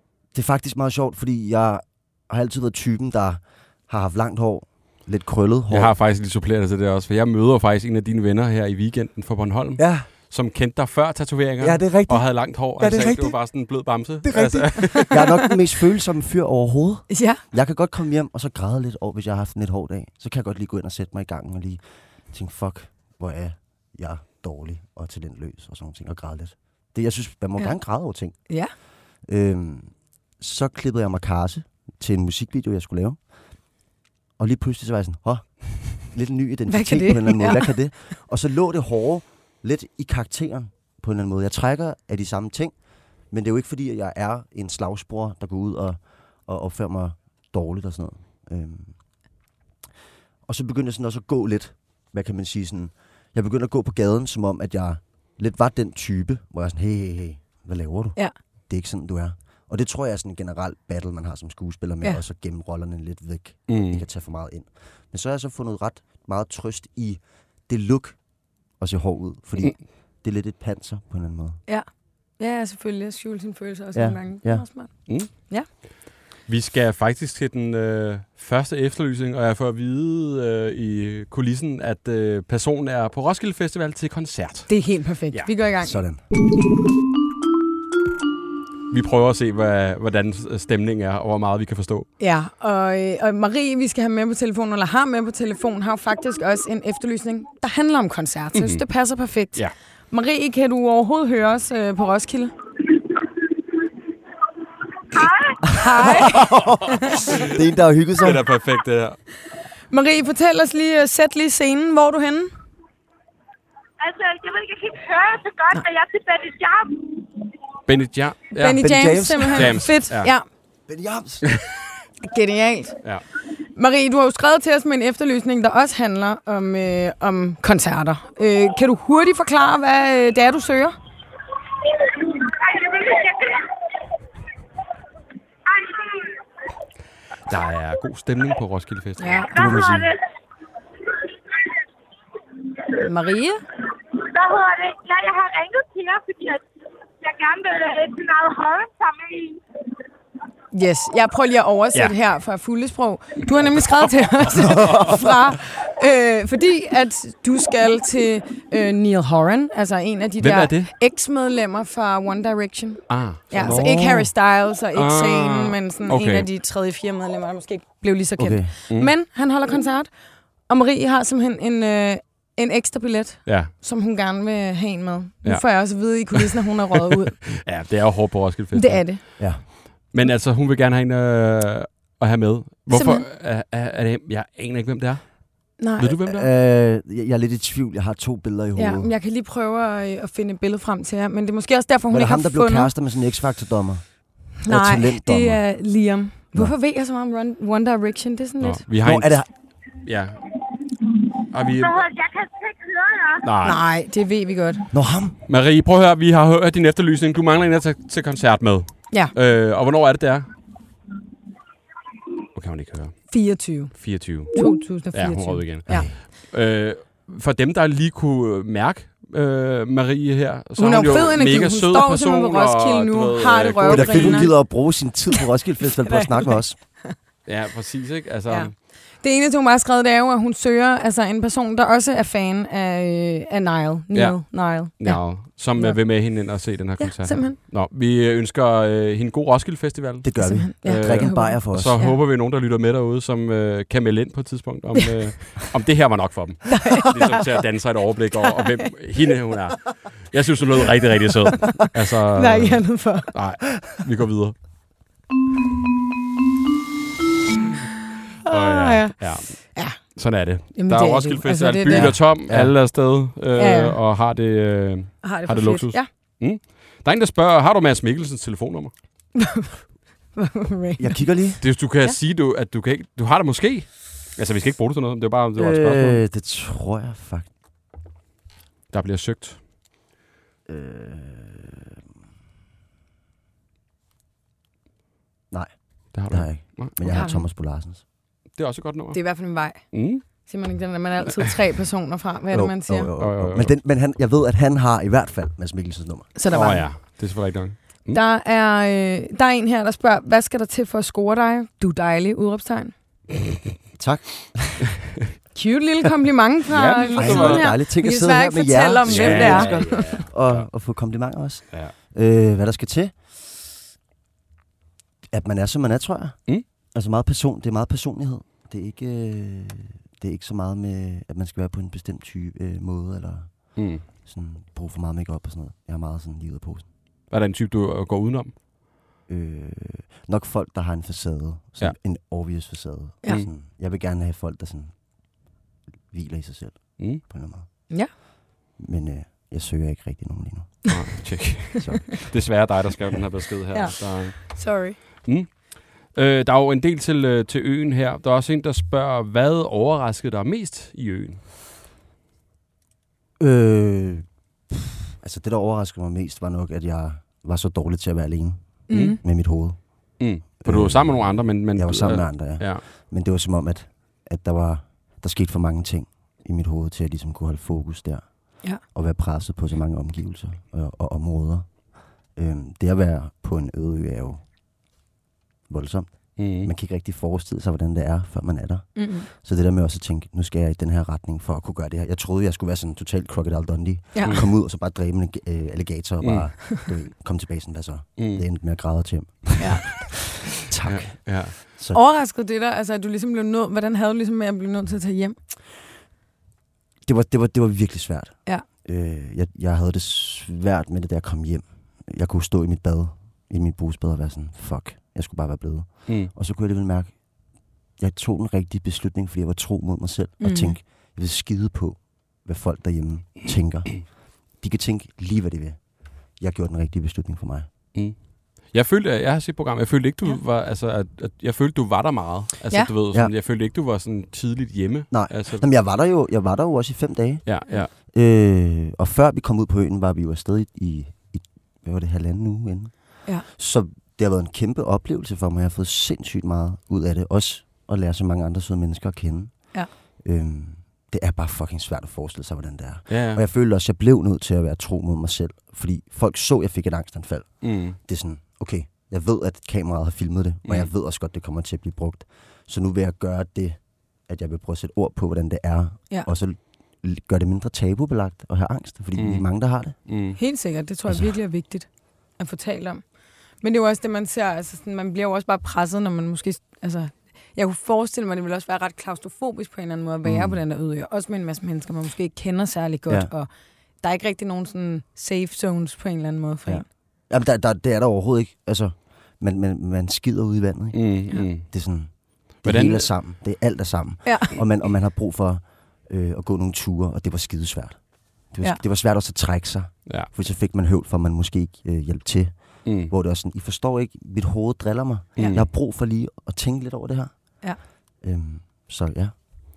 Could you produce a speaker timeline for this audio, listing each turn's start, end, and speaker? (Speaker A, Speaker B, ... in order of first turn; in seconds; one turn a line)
Speaker A: 0.3-6.0
Speaker B: 5.7-15.4
Speaker A: 9.8-10.1
Speaker A: 11.6-13.4
Speaker A: 14.2-28.6
Speaker C: 14.9-15.3
Speaker C: 17.1-17.4
Speaker A: 29.2-33.2
Speaker A: 34.4-42.8
Speaker C: 36.7-37.8
Speaker A: 43.3-49.0
Speaker A: 50.5-68.2
Speaker B: 63.7-64.0
Speaker A: 68.8-71.6
Speaker C: 72.4-75.7
Speaker A: 73.9-74.7
Speaker B: 76.5-84.8
Speaker C: 84.7-86.0
Speaker A: 85.8-86.2
Speaker B: 88.9-92.1
Speaker C: 92.2-102.5
Speaker B: 98.5-98.8
Speaker D: 105.1-106.3
Speaker C: 105.7-106.4
Speaker A: 105.8-108.5
Speaker C: 106.9-107.2
Speaker B: 107.1-107.6
Speaker B: 108.2-109.2
Speaker C: 109.9-112.5
Speaker D: 114.0-117.2
Speaker B: 117.9-118.9
Speaker C: 118.6-120.5
Speaker A: 118.8-119.9
Speaker B: 119.5-120.3
Speaker A: 120.9-121.5
Speaker C: 122.2-123.0
Speaker C: 123.8-131.0
Speaker D: 132.0-133.8
Speaker D: 135.7-136.4
Speaker B: 137.5-139.8
Speaker C: 139.2-139.5
Speaker D: 139.5-140.2
Speaker A: 139.6-140.1
Speaker C: 143.0-143.6
Speaker D: 144.1-146.7
Speaker D: 147.2-149.6
Speaker C: 150.7-170.1
Speaker B: 154.6-155.0
Speaker A: 154.8-155.3
Speaker B: 160.4-160.9
Speaker B: 163.1-163.9
Speaker A: 163.6-164.3
Speaker B: 164.9-166.5
Speaker A: 168.4-168.7
Speaker C: 170.7-177.4
Speaker B: 173.5-173.7
Speaker B: 175.4-176.4
Speaker B: 177.4-179.5
Speaker C: 178.7-179.7
Speaker A: 179.4-179.6
Speaker B: 180.1-186.5
Speaker C: 182.9-183.2
Speaker C: 185.8-186.1
Speaker A: 186.2-189.1
Speaker C: 188.8-192.9
Speaker A: 192.1-195.6
Speaker C: 194.6-198.8
Speaker B: 198.6-199.4
Speaker A: 199.0-199.5
Speaker B: 200.0-200.4
Speaker B: 201.5-202.0
Speaker D: 201.8-203.5
Speaker B: 203.4-203.8
Speaker C: 203.6-204.8
Speaker A: 204.9-205.4
Speaker B: 205.5-210.5
Speaker B: 212.6-224.6
Speaker C: 213.3-216.1
Speaker A: 215.9-216.2
Speaker C: 220.8-224.7
Speaker A: 223.8-226.8
Speaker C: 226.1-227.2
Speaker B: 227.5-228.8
Speaker C: 228.5-237.6
Speaker B: 234.1-254.7
Speaker A: 240.2-242.0
Speaker C: 240.4-242.2
Speaker C: 246.7-247.4
Speaker C: 251.8-253.3
Speaker C: 258.5-260.2
Speaker B: 258.5-268.9
Speaker C: 260.7-262.2
Speaker A: 261.9-262.8
Speaker C: 263.6-264.0
Speaker C: 265.2-266.1
Speaker C: 269.4-269.8
Speaker C: 270.3-271.3
Speaker A: 271.0-271.6
Speaker B: 271.6-276.2
Speaker A: 275.6-277.5
Speaker B: 278.9-279.6
Speaker A: 280.7-281.8
Speaker A: 285.5-288.0
Speaker B: 286.1-287.3
Speaker C: 287.1-287.4
Speaker B: 288.5-290.2
Speaker C: 289.1-293.1
Speaker A: 292.5-296.3
Speaker B: 293.2-293.7
Speaker C: 296.4-297.0
Speaker B: 296.5-298.2
Speaker C: 298.1-302.9
Speaker A: 304.0-304.9
Speaker C: 305.6-310.2
Speaker B: 306.7-307.7
Speaker A: 307.2-313.1
Speaker B: 309.1-310.7
Speaker A: 315.3-326.9
Speaker B: 323.8-324.0
Speaker B: 327.3-328.6
Speaker A: 329.3-335.0
Speaker A: 336.1-338.2
Speaker A: 338.8-341.2
Speaker B: 340.9-351.4
Speaker A: 341.8-342.4
Speaker C: 343.7-345.0
Speaker A: 353.4-374.4
Speaker C: 358.9-359.2
Speaker B: 358.9-359.2
Speaker B: 360.2-362.8
Speaker A: 375.7-392.0
Speaker B: 376.4-376.7
Speaker C: 379.0-379.3
Speaker C: 384.1-384.4
Speaker B: 386.2-386.6
Speaker B: 388.2-388.4
Speaker C: 389.6-390.1
Speaker B: 390.9-391.6
Speaker C: 391.9-395.4
Speaker A: 397.1-407.4
Speaker A: 408.0-417.7
Speaker C: 410.4-410.8
Speaker B: 417.9-425.7
Speaker A: 425.1-460.0
Speaker B: 427.5-427.9
Speaker B: 443.1-443.4
Speaker B: 447.6-448.0
Speaker B: 459.2-459.5
Speaker B: 460.1-460.4
Speaker C: 460.4-463.0
Speaker C: 463.6-473.5
Speaker A: 470.2-470.6
Speaker C: 474.0-476.9
Speaker A: 476.7-497.6
Speaker B: 480.9-481.7
Speaker B: 482.6-483.3
Speaker C: 484.2-484.5
Speaker B: 492.9-493.1
Speaker B: 495.4-495.7
Speaker A: 498.2-499.4